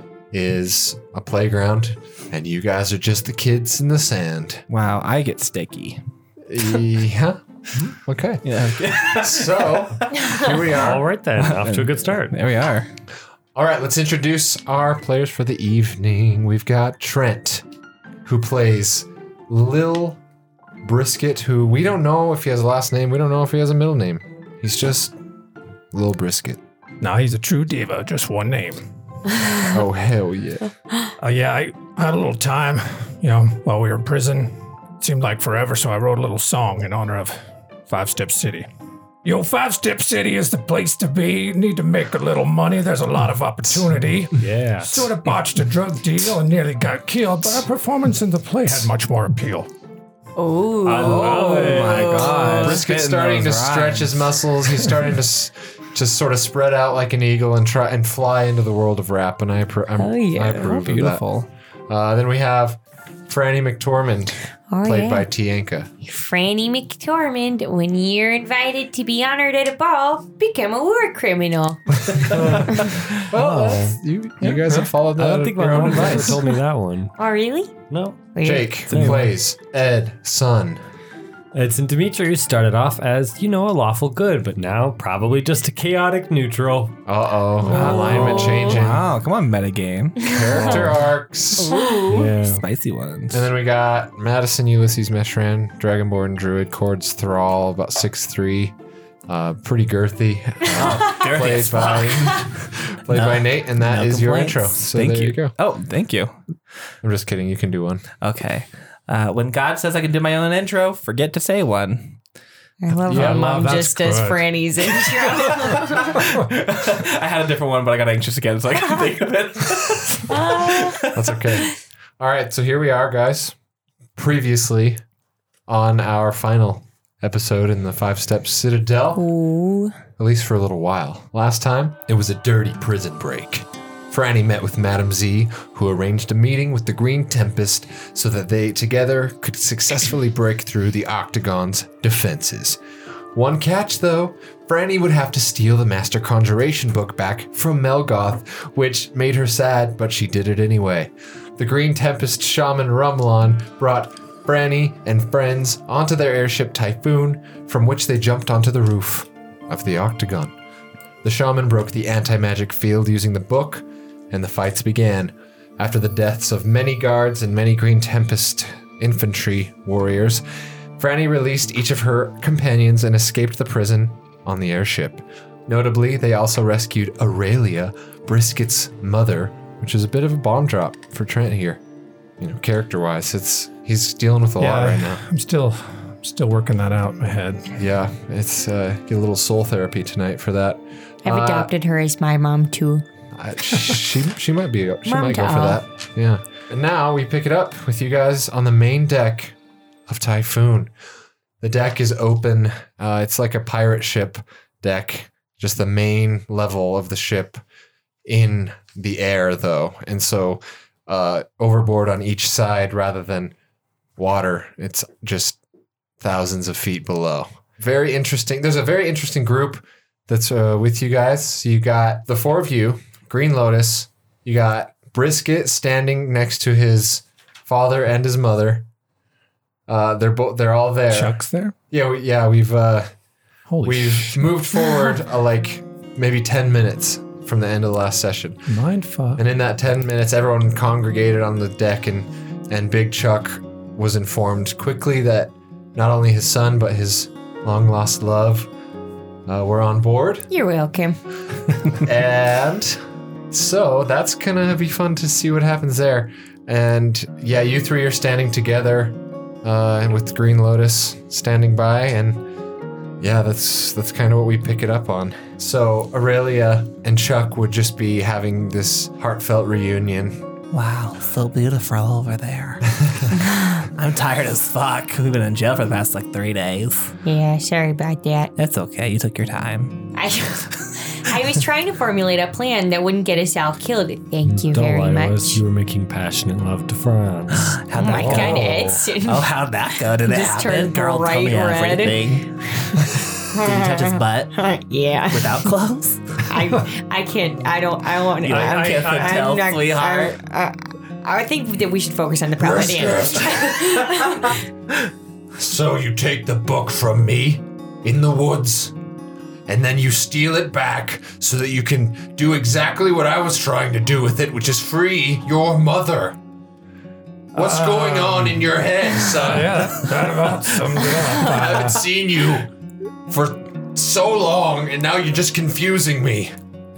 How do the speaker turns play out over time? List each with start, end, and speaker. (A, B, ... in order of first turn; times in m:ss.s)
0:00.3-0:04.6 A
0:04.7-0:06.0 B
0:06.5-0:07.4 A
0:08.0-0:08.4 A
0:08.4-0:10.5 B
0:09.0-0:11.0 A
0:10.7-0:12.4 C
0:11.4-0:12.9 B
0:13.5-0:17.6 A
0:18.2-0:20.2 A
0:20.8-0:25.1 A
0:25.9-0:26.6 A
0:27.0-0:28.8 D
0:29.7-0:30.6 A
0:31.2-0:38.6 D
0:39.2-0:49.7 D
0:44.4-0:45.3 C
0:50.4-0:52.5 E
0:50.8-0:52.7 C
0:50.9-0:54.3 B
0:52.2-1:01.2 A
1:00.0-1:00.7 E
1:00.5-1:01.5 B
1:01.9-1:05.9 A
1:04.7-1:05.3 E
1:06.0-1:12.0 E
1:12.2-1:17.1 C
1:13.1-1:16.4 A
1:17.2-1:17.7 E
1:17.9-1:18.2 C
1:18.3-1:18.7 E
1:18.4-1:20.8 A
1:18.9-1:19.2 B
1:18.9-1:19.3 C
1:21.5-1:27.0 C
1:27.0-1:29.1 A
1:27.6-1:28.8 E
1:27.7-1:30.9 B
1:30.3-1:31.7 A
1:30.6-1:30.9 C
1:31.6-1:32.3 E
1:32.1-1:32.6 C
1:32.1-1:33.5 B
1:33.3-1:38.7 A
1:39.3-1:45.5 A
1:40.7-1:42.5 B
1:43.1-1:46.4 B
1:47.0-1:48.0 A
1:48.2-1:52.2 B
1:52.8-1:56.2 E
1:53.0-1:54.4 D
1:53.1-1:53.4 A
1:55.1-2:01.3 B
2:00.3-2:01.0 E
2:01.1-2:03.5 A
2:04.2-2:05.0 A
2:05.7-2:09.2 A
2:09.1-2:10.0 E
2:10.2-2:22.8 A
2:23.3-2:40.5 A
2:41.2-2:50.4 A
2:51.0-3:01.8 A
3:02.4-3:05.2 A
3:04.6-3:07.7 D
3:07.8-3:11.7 A
3:11.2-3:13.0 E
3:13.3-3:19.6 A
3:15.0-3:15.8 E
3:20.1-3:20.9 A
3:21.6-3:27.6 A
3:28.2-3:33.5 A
3:34.2-3:35.6 A
3:36.2-3:48.8 A
3:49.9-3:51.4 A
3:51.1-3:51.7 D
3:51.9-3:53.1 A
3:53.7-3:54.5 D
3:53.8-3:58.7 A
3:58.7-3:59.4 D
3:59.4-4:08.7 A
4:09.5-4:10.5 A
4:10.5-4:11.2 E
4:11.9-4:13.0 A
4:13.5-4:22.4 A
4:23.2-4:30.4 A
4:30.7-4:32.9 B
4:33.0-4:33.3 A
4:33.3-4:33.8 E
4:33.8-4:37.1 B
4:37.2-4:38.5 E
4:38.6-4:40.1 B
4:40.1-4:45.6 E
4:44.4-4:48.9 C
4:47.5-4:52.5 B
4:48.0-4:55.7 E
4:53.4-4:54.6 B
4:55.3-4:56.4 B
4:56.4-5:04.6 E
4:58.4-5:00.3 B
4:58.6-4:59.2 C
5:02.6-5:03.9 A
5:05.6-5:08.9 A
5:09.7-5:16.4 A
5:17.5-5:20.1 A
5:17.6-5:18.6 D
5:19.3-5:22.0 D
5:21.0-5:22.7 A
5:23.3-5:26.5 A